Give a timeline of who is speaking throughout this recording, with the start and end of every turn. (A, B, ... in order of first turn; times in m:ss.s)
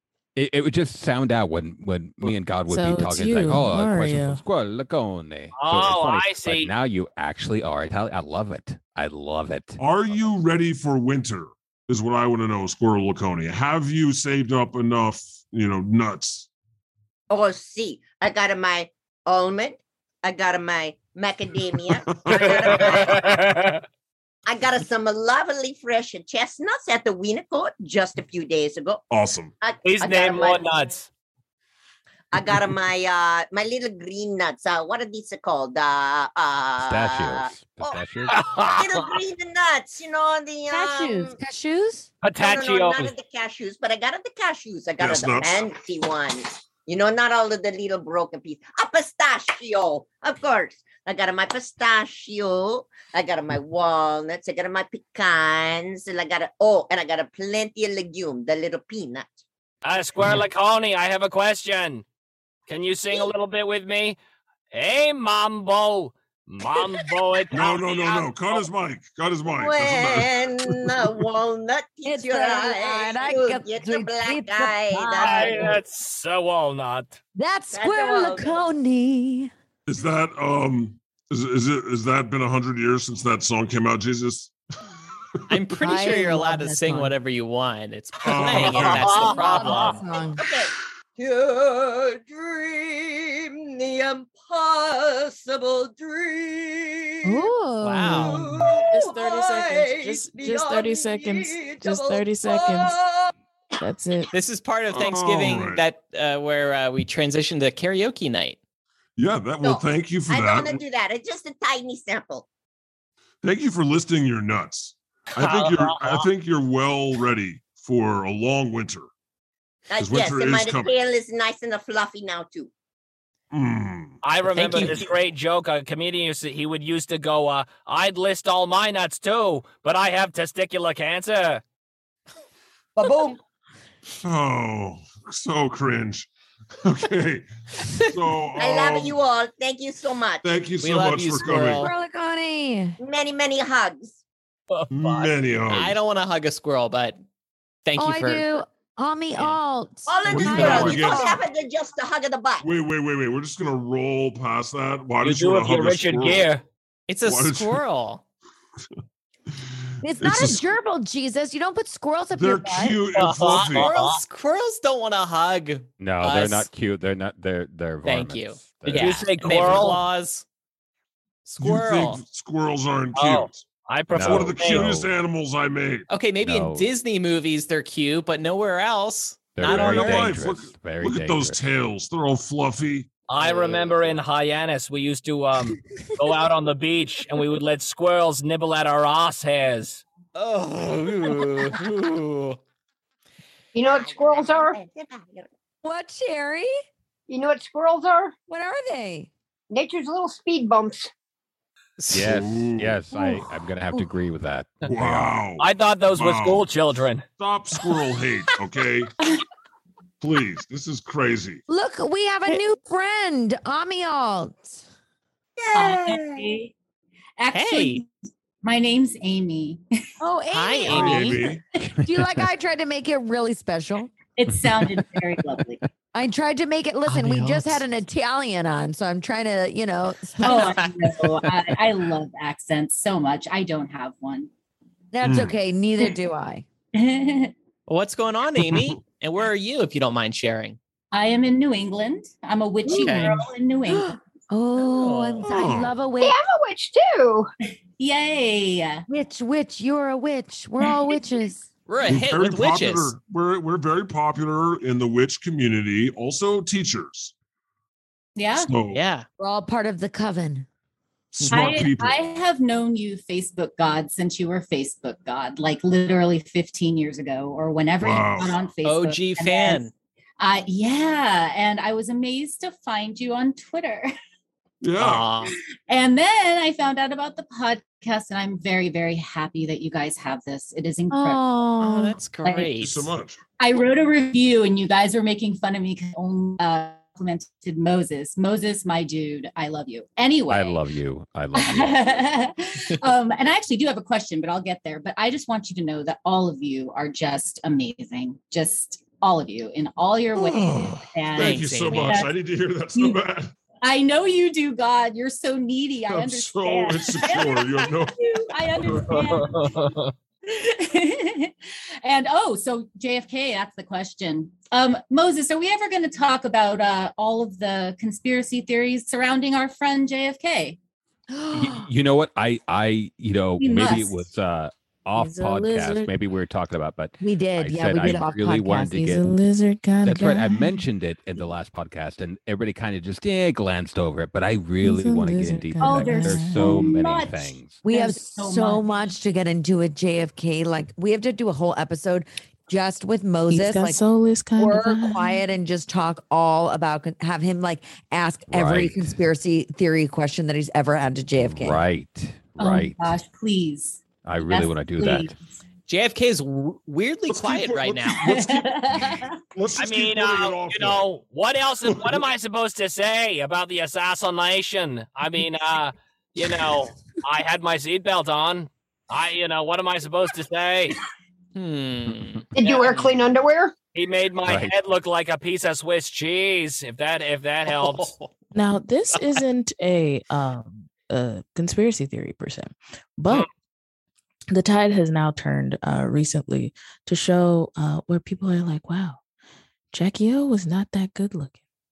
0:00.4-0:09.8 A
0:02.7-0:04.4 B
0:05.6-0:06.7 C
0:09.8-0:16.5 D
0:17.3-0:23.5 E
0:22.1-0:23.0 D
0:22.4-0:23.8 C
0:24.5-0:29.0 E
0:29.1-0:29.5 D
0:29.6-0:30.8 E
0:29.8-0:31.1 C
0:32.3-0:41.4 E
0:36.8-0:38.4 A
0:38.3-0:39.1 C
0:40.7-0:42.1 F
0:42.2-0:43.1 C
0:42.3-0:59.4 E
0:45.0-0:45.7 D
0:59.8-1:02.0 C
1:02.7-1:04.2 C
1:04.7-1:08.6 C
1:07.5-1:11.1 D
1:09.4-1:15.8 E
1:12.0-1:15.7 F
1:15.2-1:17.2 C
1:17.4-1:19.5 F
1:17.7-1:18.6 E
1:19.9-1:24.5 D
1:25.5-1:30.0 G
1:25.7-1:27.1 F
1:28.2-1:29.2 D
1:28.6-1:30.4 F
1:28.7-1:29.9 C
1:29.2-1:29.7 E
1:30.3-1:37.5 E
1:37.2-1:38.4 F
1:37.8-1:38.4 G
1:38.2-1:43.0 B
1:38.2-1:43.3 E
1:43.8-1:44.3 B
1:44.3-1:48.6 G
1:44.9-1:45.8 D
1:49.2-1:50.8 D
1:49.6-1:52.5 E
1:53.4-1:59.1 D
1:55.4-1:56.3 C
1:59.9-2:02.7 E
2:00.0-2:00.9 D
2:03.5-2:04.2 D
2:04.2-2:11.6 C
2:04.5-2:05.0 G
2:13.0-2:13.4 E
2:14.2-2:16.3 D
2:16.8-2:19.2 D
2:18.6-2:20.5 E
2:20.4-2:21.9 D
2:20.8-2:21.9 G
2:21.8-2:23.0 F
2:23.0-2:24.2 E
2:24.7-2:25.3 C
2:24.9-2:26.0 D
2:25.7-2:27.2 G
2:27.8-2:28.5 G
2:28.0-2:31.4 F
2:30.1-2:32.7 E
2:30.3-2:31.3 D
2:32.6-2:36.5 D
2:35.2-2:36.6 C
2:37.1-2:38.2 G
2:37.2-2:37.8 D
2:40.0-2:43.0 F
2:40.2-2:40.6 D
2:42.4-2:43.9 D
2:43.2-2:44.2 C
2:43.7-2:46.7 G
2:46.0-2:49.3 A
2:48.0-2:50.4 G
2:48.9-2:50.0 C
2:51.4-2:52.2 G
2:51.6-2:56.1 D
2:53.2-2:54.9 C
2:54.1-2:55.1 A
2:56.1-3:00.3 G
2:56.4-2:56.9 A
2:59.6-3:01.6 A
2:59.6-3:03.1 D
3:03.3-3:10.0 C
3:03.4-3:04.2 G
3:10.4-3:12.6 G
3:13.7-3:14.8 H
3:13.9-3:15.5 E
3:15.8-3:16.7 F
3:17.3-3:18.3 H
3:18.5-3:19.3 F
3:19.7-3:21.1 H
3:22.0-3:22.4 G
3:22.1-3:25.4 A
3:22.2-3:23.0 D
3:24.9-3:26.7 D
3:25.6-3:27.2 C
3:27.4-3:29.1 D
3:30.2-3:31.6 D
3:31.7-3:34.8 F
3:35.6-3:36.6 E
3:35.7-3:36.7 I
3:37.4-3:38.1 I
3:37.5-3:38.0 G
3:38.6-3:39.8 I
3:40.2-3:41.4 F
3:40.5-3:41.4 G
3:40.9-3:41.6 D
3:42.0-3:44.1 F
3:44.4-3:45.8 I
3:46.1-3:50.7 F
3:47.1-3:47.8 G
3:50.4-3:50.9 G
3:50.4-3:54.5 I
3:55.1-3:56.6 F
3:55.2-3:55.5 D
3:56.9-3:57.5 I
3:57.9-4:00.8 G
3:58.7-3:59.0 D
4:01.1-4:04.2 I
4:02.9-4:03.4 G
4:02.9-4:06.4 F
4:04.8-4:05.4 G
4:05.4-4:06.0 D
4:06.2-4:07.5 H
4:08.0-4:09.0 I
4:09.1-4:11.6 F
4:11.9-4:13.1 G
4:12.0-4:17.3 D
4:18.4-4:18.7 I
4:18.6-4:19.0 D
4:18.9-4:19.3 G
4:19.4-4:20.7 F
4:21.3-4:22.2 D
4:21.4-4:21.8 G
4:21.5-4:29.9 I
4:28.0-4:28.6 D
4:28.8-4:29.9 G
4:30.4-4:34.1 I
4:34.8-4:35.3 D
4:35.0-4:35.6 G
4:35.9-4:41.4 I
4:41.1-4:42.2 F
4:41.8-4:43.1 G
4:42.4-4:42.7 I
4:42.8-4:43.4 D
4:43.6-4:50.8 I
4:50.5-4:52.4 A
4:51.6-5:02.4 I
5:00.4-5:03.5 D
5:01.4-5:02.2 G
5:02.9-5:03.2 I
5:03.8-5:20.8 I
5:06.1-5:08.2 D
5:08.8-5:09.1 D
5:09.1-5:10.1 C
5:21.3-5:21.9 F
5:21.5-5:29.2 A
5:23.6-5:24.3 I
5:25.2-5:26.1 B
5:27.2-5:29.2 F
5:29.1-5:30.8 B
5:30.0-5:37.8 A
5:34.8-5:36.9 B
5:35.8-5:39.0 I
5:37.8-5:44.0 F
5:43.5-5:45.4 B
5:44.6-5:51.8 F
5:48.5-5:49.2 A
5:51.4-5:53.2 A
5:52.6-5:55.4 I
5:54.2-5:55.3 A
5:55.9-5:58.3 G
5:57.3-6:01.1 D
5:58.2-5:59.4 I
5:59.8-6:11.0 C
6:11.6-6:13.1 G
6:12.6-6:13.8 H
6:12.6-6:13.0 C
6:14.0-6:18.1 C
6:14.4-6:14.7 A
6:17.7-6:18.3 G
6:18.5-6:23.5 B
6:24.5-6:29.2 B
6:29.9-6:31.6 B